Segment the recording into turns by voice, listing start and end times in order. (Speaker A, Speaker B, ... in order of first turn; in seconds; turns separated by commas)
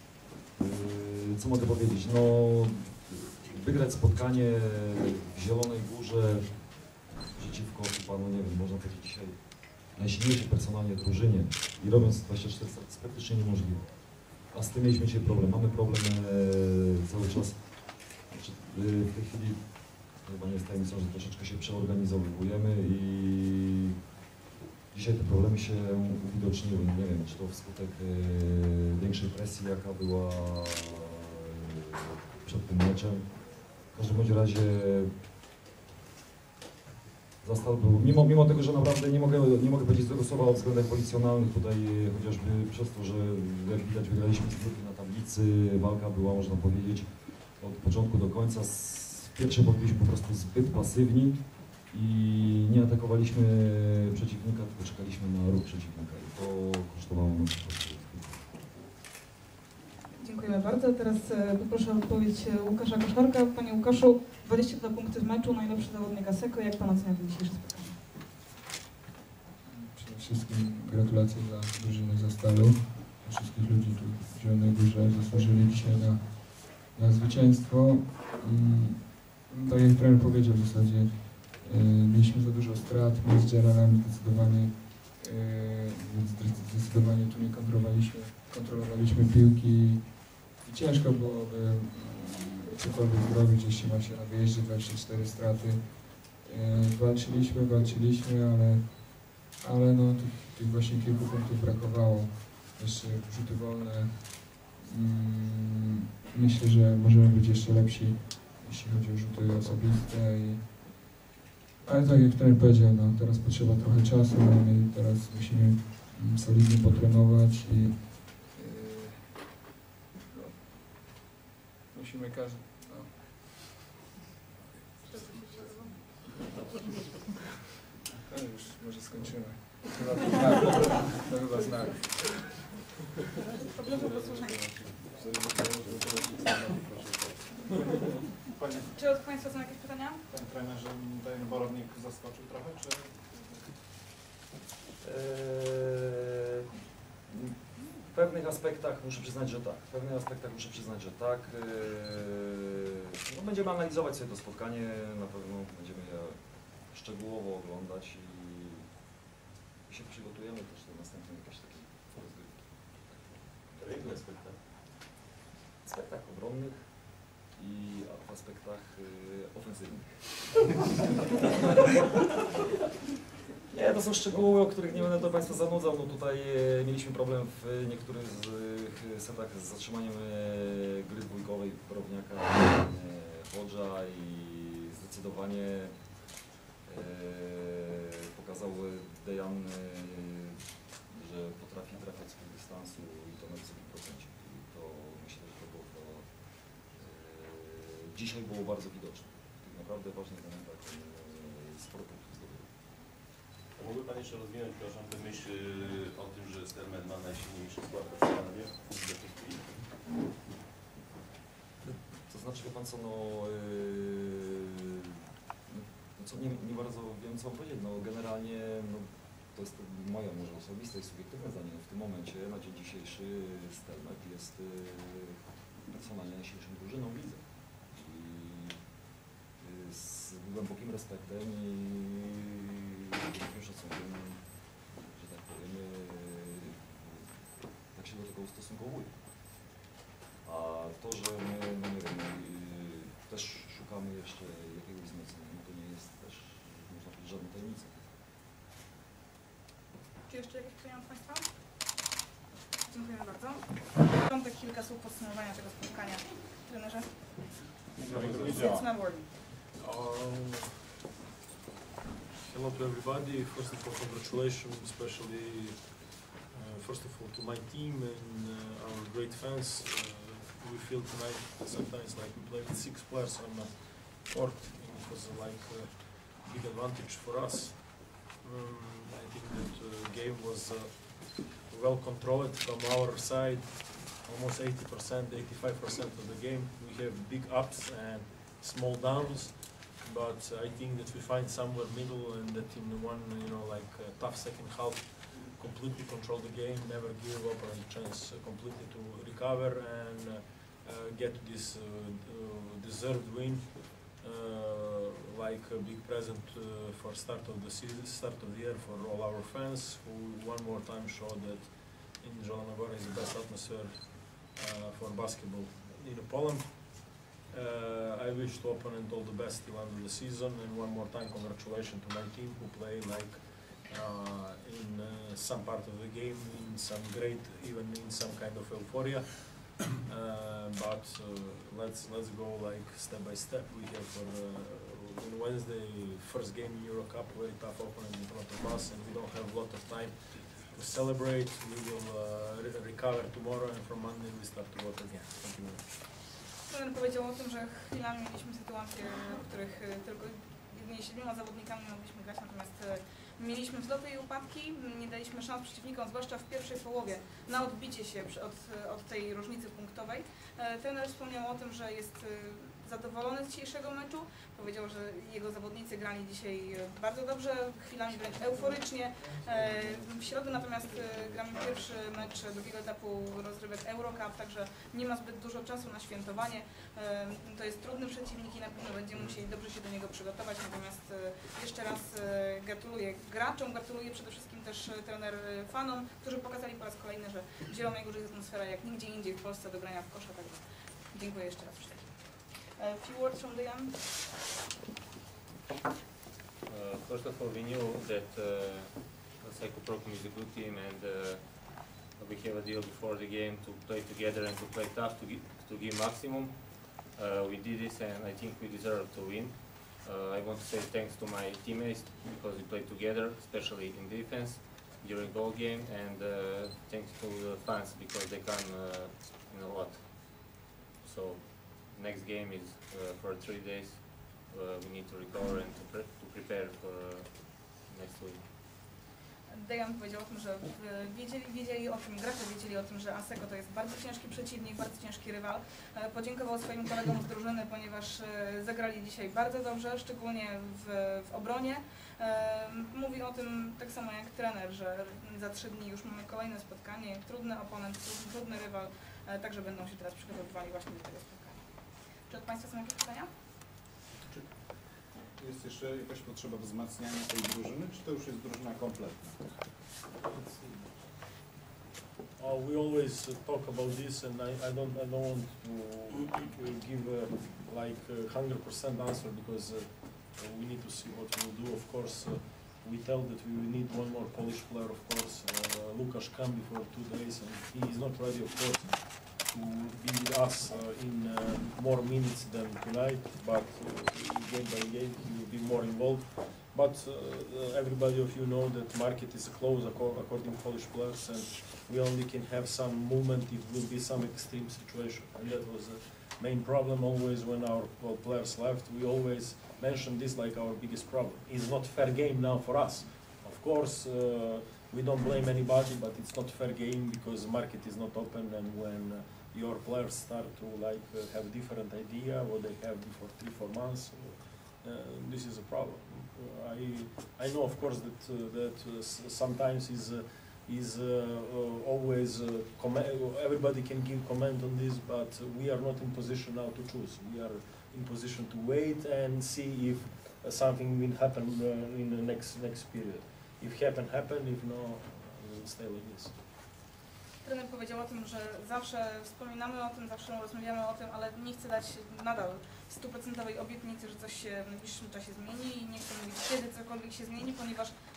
Speaker A: 0.5-23.9, Speaker A: 24.9-31.2, Speaker A: 32.4-35.1, Speaker A: 37.4-58.5, Speaker B: 60.2-67.9, Speaker C: 69.6-111.2, Speaker C: 111.8-119.6, Speaker C: 120.3-120.7, Speaker C: 121.9-123.8, Speaker B: 125.1-126.0, Speaker C: 125.1-125.9, Speaker C: 128.3-132.4, Speaker B: 133.7-134.9, Speaker C: 134.2-134.6, Speaker C: 135.2-135.5, Speaker D: 135.4-136.2, Speaker D: 136.9-137.5, Speaker E: 138.6-138.9, Speaker B: 138.9-140.2, Speaker E: 140.3-143.1, Speaker A: 145.0-146.3, Speaker A: 147.3-158.9, Speaker A: 159.9-164.2, Speaker D: 163.7-164.6, Speaker A: 165.8-170.6, Speaker A: 173.7-186.2, Speaker A: 186.8-202.7, Speaker D: 203.8-209.8, Speaker A: 211.8-215.2, Speaker A: 215.7-228.8, Speaker A: 229.6-239.6, Speaker A: 240.4-248.1, Speaker B: 250.3-251.5, Speaker B: 252.9-257.1, Speaker E: 258.1-258.9, Speaker F: 258.1-258.6, Speaker B: 258.3-259.3, Speaker F: 259.8-260.8, Speaker F: 262.4-346.0, Speaker B: 346.7-390.6, Speaker B: 391.1-393.9, Speaker G: 396.7-428.4, Speaker B: 429.5-451.7, Speaker B: 452.3-453.3, Speaker E: 455.4-459.6, Speaker F: 462.4-536.4, Speaker B: 537.4-547.9